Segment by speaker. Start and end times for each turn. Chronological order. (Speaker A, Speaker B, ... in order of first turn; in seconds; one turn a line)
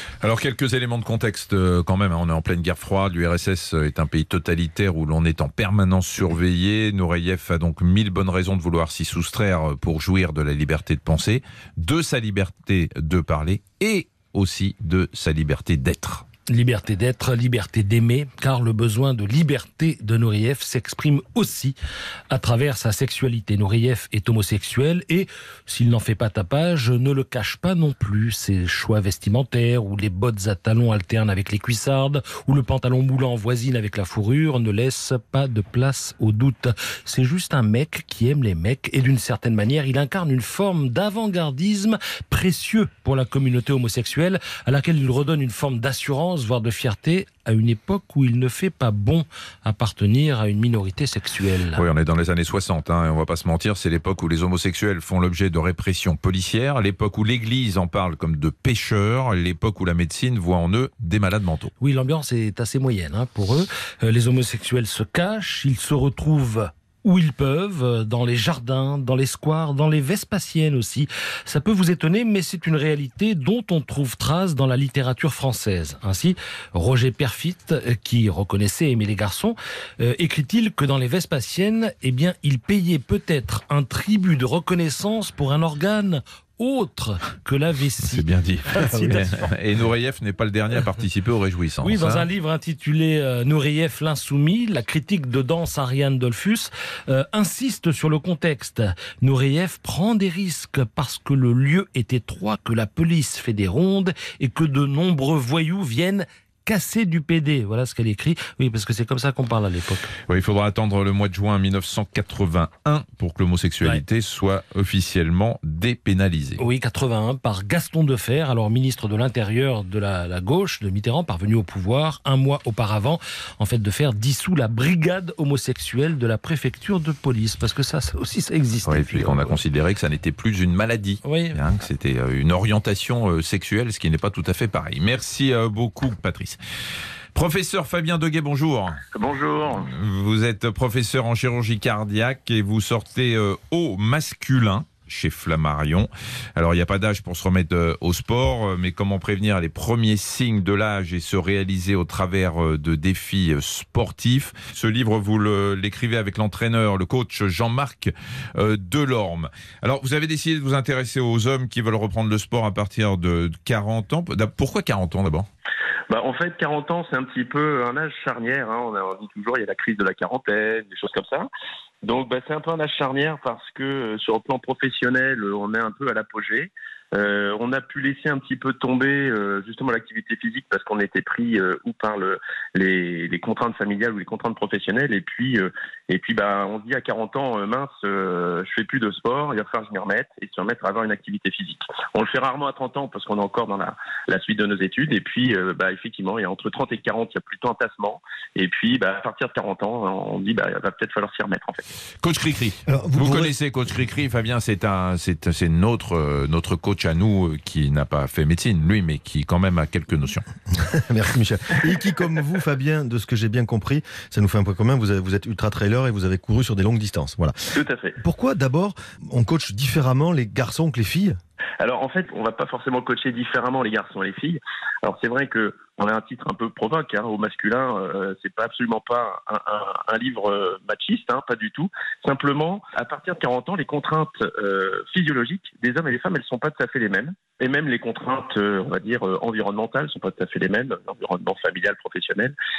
Speaker A: 0.2-16.2
Speaker B: 16.5-21.8
Speaker B: 22.3-51.8
Speaker A: 51.8-61.7
Speaker B: 61.8-89.5
Speaker A: 88.1-92.3
Speaker B: 91.8-110.1
Speaker A: 110.3-116.6
Speaker B: 116.6-129.6
Speaker A: 128.9-136.6
Speaker B: 131.2-131.6
Speaker A: 137.3-139.0
Speaker C: 139.1-139.9
Speaker A: 139.8-165.5
Speaker C: 166.1-171.5
Speaker C: 172.0-201.8
Speaker A: 202.2-210.4
Speaker D: 202.9-203.6
Speaker D: 210.8-221.4
Speaker C: 217.8-218.2
Speaker C: 221.8-242.6